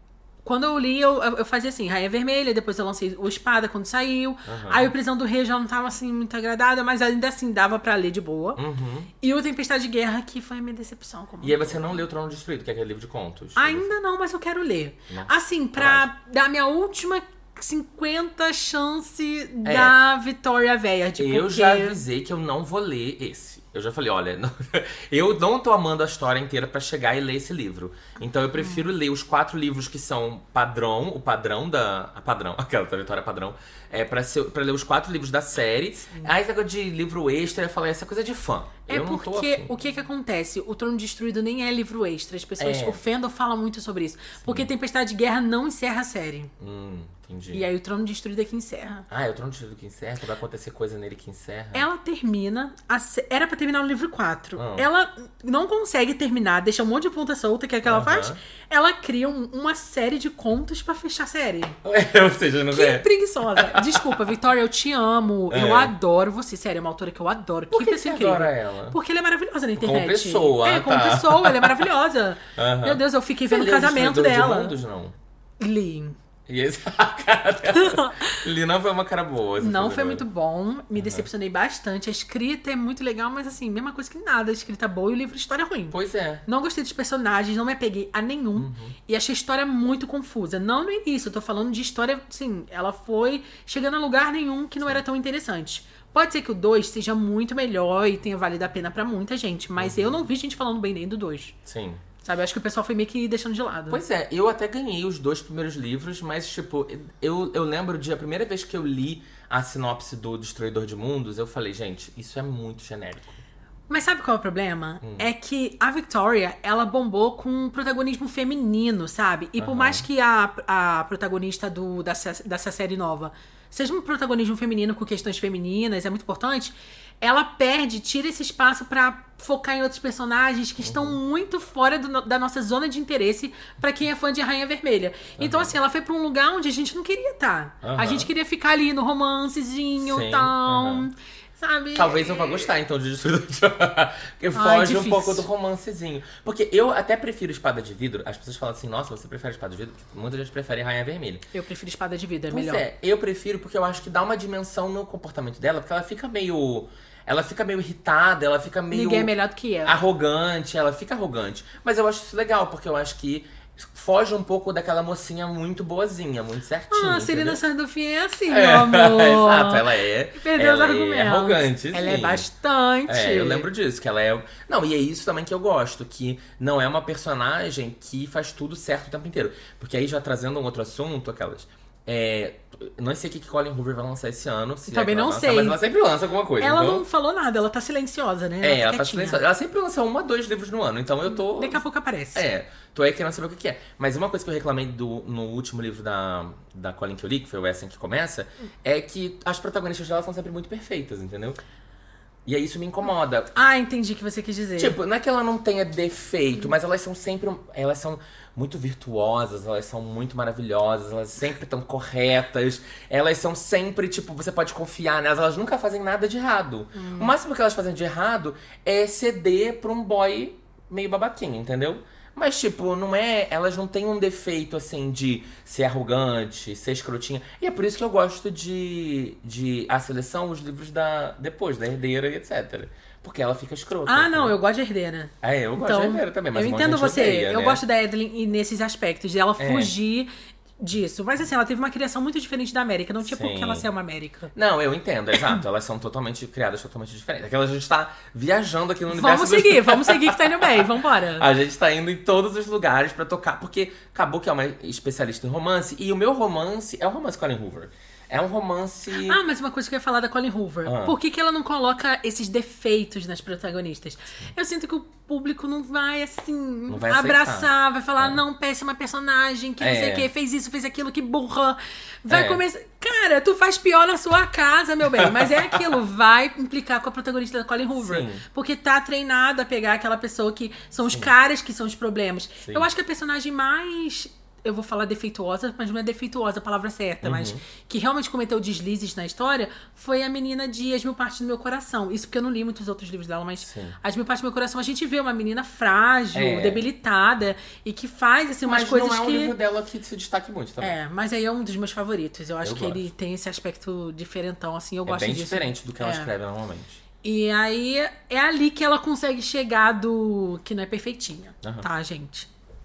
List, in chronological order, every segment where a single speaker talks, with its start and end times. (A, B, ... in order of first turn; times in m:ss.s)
0:00.4-0:08.6 A
0:04.4-0:04.9 B
0:08.6-0:09.1 B
0:09.2-0:12.0 A
0:11.4-0:13.9 B
0:13.6-0:22.0 A
0:15.1-0:16.0 B
0:19.6-0:20.0 B
0:21.2-0:39.7 B
0:38.9-0:46.5 A
0:42.6-0:43.0 B
0:44.4-0:44.7 B
0:46.6-0:47.6 B
0:47.5-0:49.0 A
0:49.1-0:51.8 B
0:51.7-1:01.8 A
0:54.6-0:54.8 B
0:57.8-0:58.4 B
1:01.8-1:04.1 B
1:02.7-1:14.8 A
1:05.5-1:05.9 B
1:07.7-1:09.0 B
1:09.8-1:11.8 B
1:12.5-1:15.1 B
1:15.6-1:16.2 A
1:16.5-1:20.2 B
1:17.7-1:18.3 A
1:19.6-1:41.6 A
1:20.9-1:21.2 B
1:25.9-1:26.4 B
1:28.6-1:29.0 B
1:39.8-1:40.2 B
1:41.6-1:42.0 B
1:42.2-1:44.0 A
1:43.9-1:53.4 B
1:53.9-2:22.7 A
1:55.0-1:55.3 B
1:59.6-2:00.0 B
2:10.8-2:11.2 B
2:15.4-2:15.7 B
2:17.8-2:18.3 B
2:20.0-2:21.1 B
2:21.9-2:31.4 B
2:24.5-2:25.4 A
2:31.5-2:32.8 A
2:32.5-2:39.3 B
2:38.9-2:40.0 A
2:39.8-2:47.6 B
2:46.9-2:53.7 A
2:48.5-2:52.5 B
2:53.1-3:07.0 B
3:04.9-3:05.8 A
3:06.6-3:09.4 A
3:08.6-3:11.8 B
3:11.3-3:12.4 A
3:12.3-3:21.6 B
3:22.4-3:23.5 B
3:23.5-3:25.0 A
3:24.8-3:54.5 B
3:36.9-3:37.3 A
3:54.0-4:04.5 A
3:55.4-3:57.8 B
3:59.6-3:59.9 B
4:03.2-4:03.9 B
4:04.5-4:10.8 B
4:09.1-4:11.5 A
4:11.4-4:19.4 B
4:19.1-4:59.5 A
4:20.8-4:21.2 B
4:26.9-4:28.4 B
4:29.8-4:30.3 B
4:32.3-4:32.6 B
4:35.2-4:35.8 B
4:38.0-4:38.4 B
4:42.6-4:42.9 B
4:47.2-4:47.6 B
4:53.6-4:54.0 B
4:56.3-4:56.8 B
4:58.6-5:00.9 B
5:00.8-5:06.3 A
5:02.6-5:03.1 B
5:05.0-5:07.0 B
5:07.2-5:12.5 A
5:11.6-5:11.9 B